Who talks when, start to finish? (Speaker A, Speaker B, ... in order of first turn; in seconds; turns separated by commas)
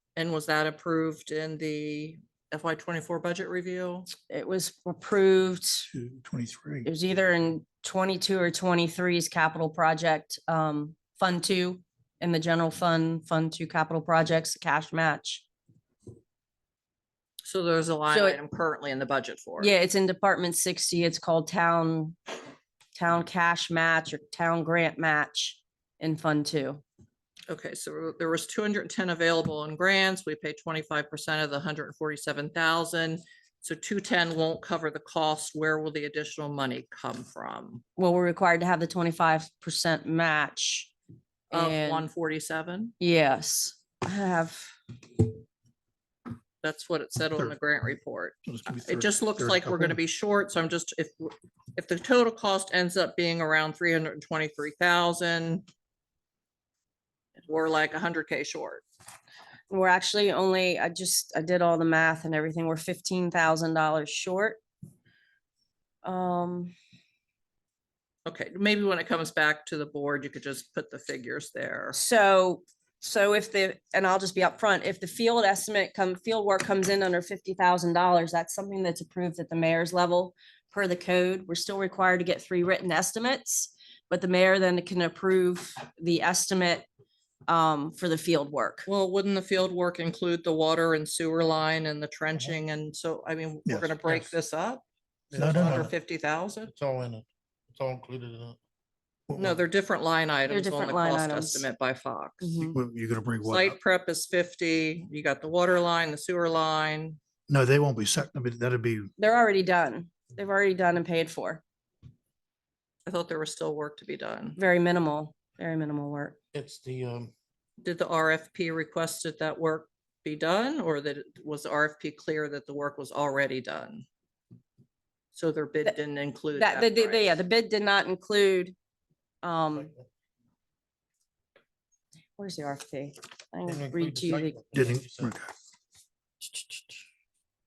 Speaker A: 0.2-4.1, Speaker B: 4.3-5.9, Speaker C: 5.9-6.9, Speaker B: 6.8-15.4, Speaker A: 17.4-19.7, Speaker B: 18.1-18.4, Speaker B: 19.6-22.2, Speaker B: 23.0-26.8, Speaker A: 27.5-37.8, Speaker B: 38.0-40.9, Speaker B: 41.5-42.1, Speaker A: 41.5-42.9, Speaker B: 43.0-44.7, Speaker A: 46.6-55.6, Speaker C: 48.5-50.0, Speaker A: 57.4-58.8, Speaker B: 59.7-64.6, Speaker B: 66.0-66.7, Speaker A: 68.3-72.0, Speaker B: 71.9-86.9, Speaker B: 87.5-88.9, Speaker A: 88.9-94.8, Speaker C: 93.7-94.2, Speaker D: 95.3-95.9, Speaker A: 95.3-96.7, Speaker C: 95.4-95.9, Speaker D: 96.7-98.6, Speaker C: 99.3-99.6, Speaker A: 99.3-102.7, Speaker B: 100.5-101.7, Speaker B: 102.4-102.8, Speaker C: 102.7-103.8, Speaker A: 103.5-107.2, Speaker C: 107.5-109.1, Speaker B: 109.2-111.6, Speaker A: 113.1-114.6, Speaker B: 114.6-116.4, Speaker D: 116.5-117.3, Speaker A: 117.8-124.0, Speaker A: 125.3-127.4, Speaker B: 126.5-128.8, Speaker B: 129.4-129.9, Speaker D: 129.8-130.0, Speaker B: 132.4-134.6, Speaker D: 133.7-135.3, Speaker C: 134.8-135.5, Speaker D: 136.4-137.1